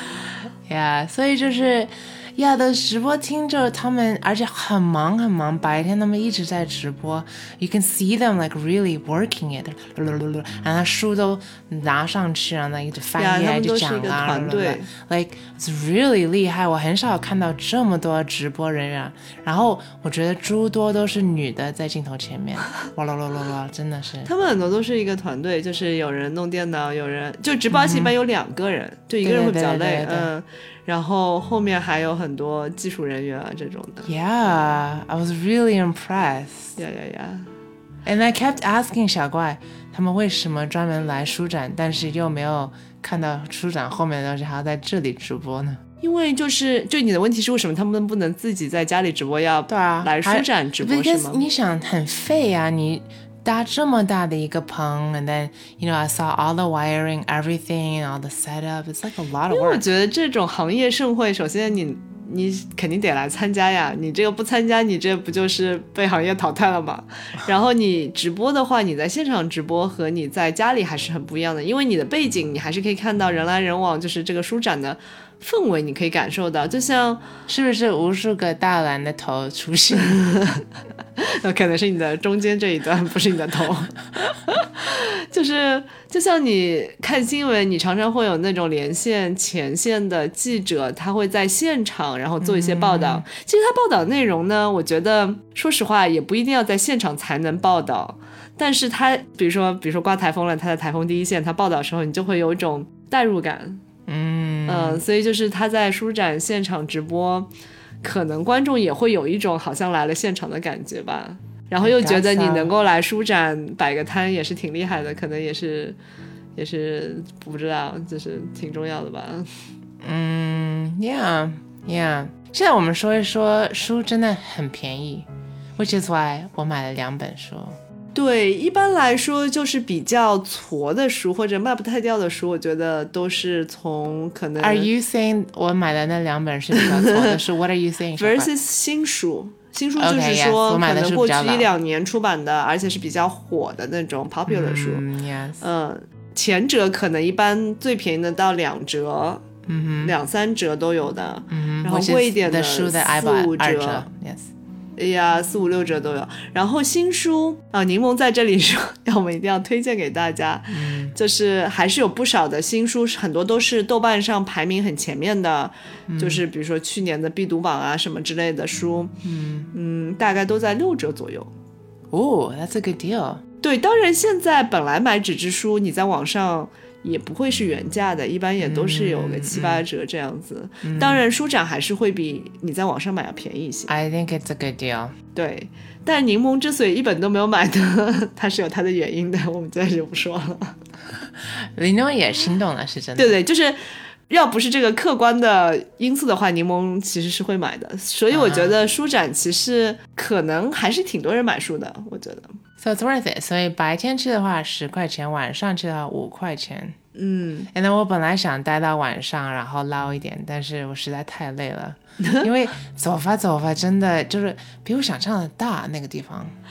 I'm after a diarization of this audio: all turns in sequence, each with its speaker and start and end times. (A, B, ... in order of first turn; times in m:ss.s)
0:00.7-0:24.3 A
0:13.2-0:14.9 B
0:24.2-0:34.1 B
0:27.7-0:28.1 A
0:29.2-0:30.3 A
0:34.0-0:36.8 A
0:36.8-0:37.5 B
0:38.0-0:45.8 A
0:46.0-0:51.4 B
0:49.7-0:59.8 A
0:59.5-1:17.2 B
1:17.5-1:20.2 A
1:20.0-1:43.8 B
1:32.4-1:33.3 A
1:44.1-1:45.0 A
1:44.7-1:47.5 B
1:48.0-1:56.0 B
1:51.8-1:52.7 A
1:56.6-1:59.5 B
2:00.0-2:07.8 A
2:08.1-2:14.9 B
2:14.6-2:18.5 A
2:16.7-2:17.4 B
2:18.2-2:25.1 B
2:20.0-2:21.7 A
2:24.5-2:25.6 A
2:25.6-2:29.4 B
2:29.7-2:30.2 A
2:30.0-2:34.1 B
2:31.5-2:34.5 A
2:35.0-2:49.1 B
2:40.7-2:41.2 A
2:46.1-2:46.4 A
2:49.2-2:49.7 A
2:49.7-2:51.5 B
2:52.1-2:53.4 A
2:53.6-3:03.9 B
2:58.6-2:59.8 A
3:00.8-3:01.2 A
3:03.9-3:05.1 A
3:05.4-3:10.8 B
3:11.6-3:13.4 A
3:13.2-3:13.8 B
3:14.3-3:22.5 B
3:18.3-3:18.8 A
3:22.8-3:27.0 A
3:27.2-3:27.7 B
3:27.7-3:36.5 A
3:32.2-3:32.5 B